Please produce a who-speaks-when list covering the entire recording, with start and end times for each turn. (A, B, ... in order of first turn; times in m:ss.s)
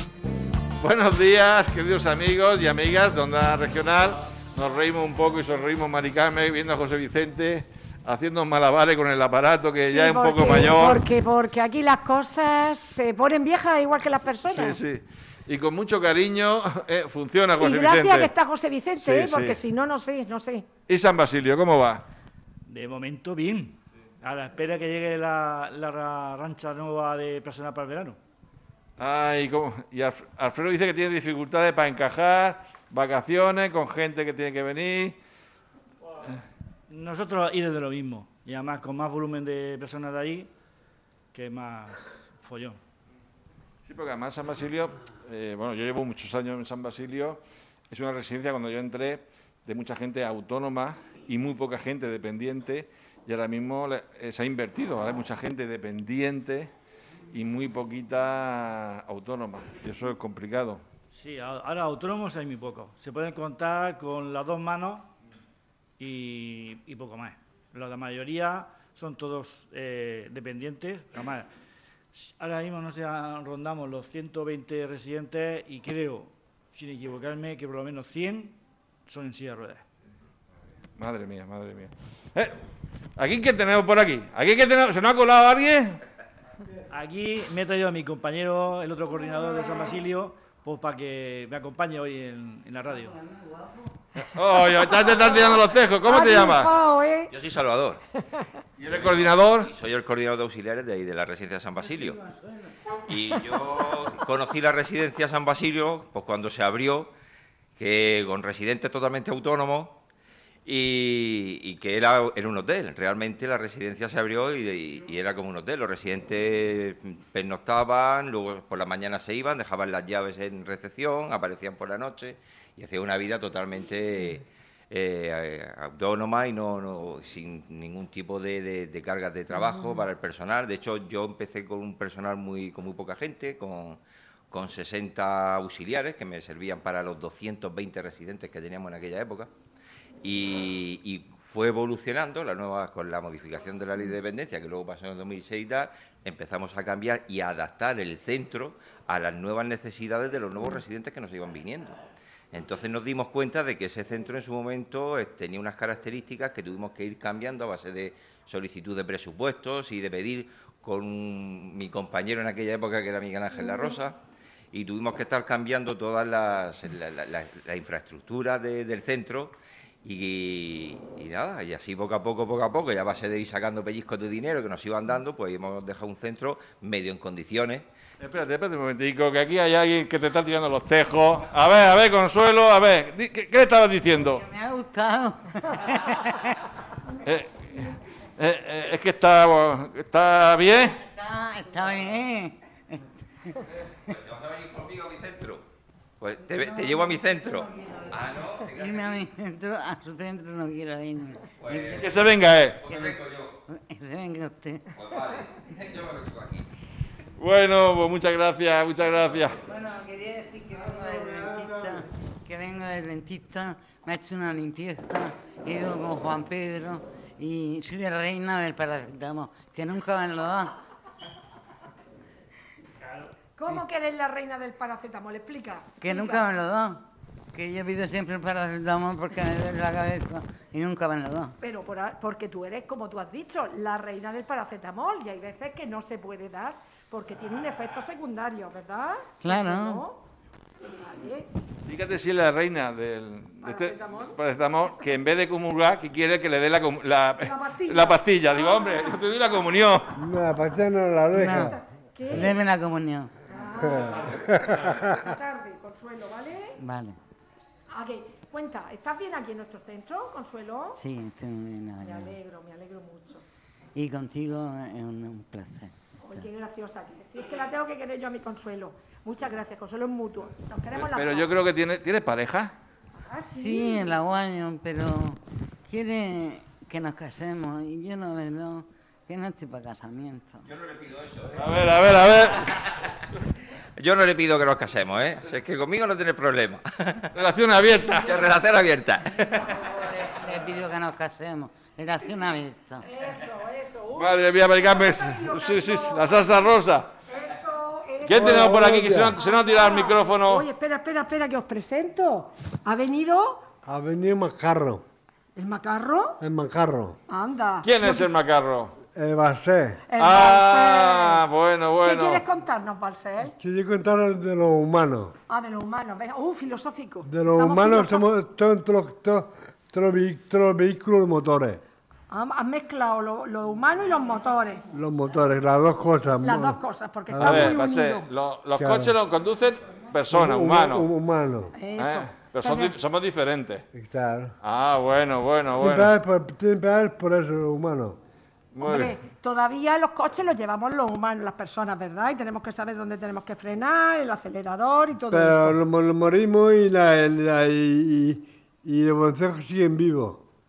0:00.8-0:11.0 A
0:09.8-0:14.8 B
0:14.4-0:18.3 A
0:17.6-0:20.7 B
0:19.0-0:19.6 A
0:20.9-0:22.0 A
0:22.7-0:28.2 C
0:29.0-0:35.2 A
0:36.9-0:40.5 C
0:41.3-0:42.8 C
0:43.8-0:47.4 A
0:47.9-0:56.7 A
0:57.3-1:00.8 A
1:01.1-1:05.1 C
1:06.0-1:11.5 C
1:12.1-1:19.8 C
1:21.0-1:22.6 A
1:23.2-1:26.0 A
1:26.9-1:33.2 C
1:33.2-1:33.7 D
1:34.2-1:36.7 A
1:34.7-1:35.4 B
1:36.0-1:37.3 B
1:37.3-1:38.0 E
1:38.8-1:39.7 A
1:38.9-1:42.2 E
1:43.0-1:47.1 E
1:47.8-1:50.0 E
1:50.6-2:14.0 E
2:14.5-2:19.5 E
2:20.2-2:32.0 E
2:32.5-2:44.2 E
2:44.7-2:57.9 E
2:58.2-3:04.4 A
3:04.2-3:06.5 D
3:07.2-3:11.0 A
3:11.1-3:13.0 D
3:13.9-3:15.6 E
3:16.2-3:19.2 E
3:16.6-3:17.0 D
3:18.6-3:22.0 D
3:21.6-3:22.2 E
3:21.9-3:23.2 A
3:22.8-3:23.6 E
3:23.7-3:24.8 D
3:24.9-3:26.7 E
3:27.4-3:29.6 A
3:29.7-3:40.8 D
3:30.7-3:32.0 F
3:43.0-3:43.3 C
3:43.5-3:46.4 B
3:46.0-3:47.0 D
3:47.5-3:51.5 D
3:51.6-4:00.2 B
3:59.4-4:00.0 D
4:00.8-4:01.5 B
4:01.8-4:10.2 A
4:03.6-4:04.4 B
4:07.4-4:09.2 B
4:10.2-4:11.8 F
4:11.3-4:11.7 D
4:11.6-4:12.6 B
4:12.3-4:13.3 D
4:13.5-4:14.6 B
4:13.9-4:15.0 F
4:15.1-4:16.8 B
4:16.8-4:17.2 D
4:17.9-4:21.0 B
4:20.9-4:22.3 D
4:22.0-4:23.4 B
4:23.9-4:26.4 D
4:26.2-4:31.5 B
4:30.9-4:32.7 A
4:33.1-4:34.2 B
4:33.5-4:40.6 D
4:40.6-4:42.6 E
4:41.6-4:42.7 A
4:44.0-4:47.3 E
4:47.3-4:48.5 A
4:48.0-4:50.4 E
4:50.4-4:53.0 D
4:53.0-4:56.7 B
4:54.2-4:57.1 A
4:57.3-4:58.6 B
4:58.2-5:00.7 A
4:58.3-4:59.4 F
4:59.3-5:03.6 B
5:03.8-5:05.0 F
5:05.5-5:06.4 B
5:06.4-5:07.2 F
5:07.3-5:08.3 B
5:07.8-5:08.9 A
5:09.1-5:10.1 F
5:10.1-5:11.4 B
5:10.2-5:12.4 A
5:12.0-5:13.5 B
5:13.6-5:15.3 F
5:15.5-5:18.2 B
5:17.2-5:21.8 F
5:22.3-5:24.8 B
5:24.9-5:27.8 F
5:26.4-5:28.2 B
5:27.4-5:31.1 A
5:28.8-5:29.2 F
5:30.3-5:31.7 F
5:31.7-5:32.9 B
5:32.0-5:33.8 A
5:33.9-5:34.5 F
5:34.6-5:36.1 A
5:35.8-5:38.2 F
5:38.7-5:39.1 A
5:38.8-5:45.8 B
5:45.3-5:50.4 F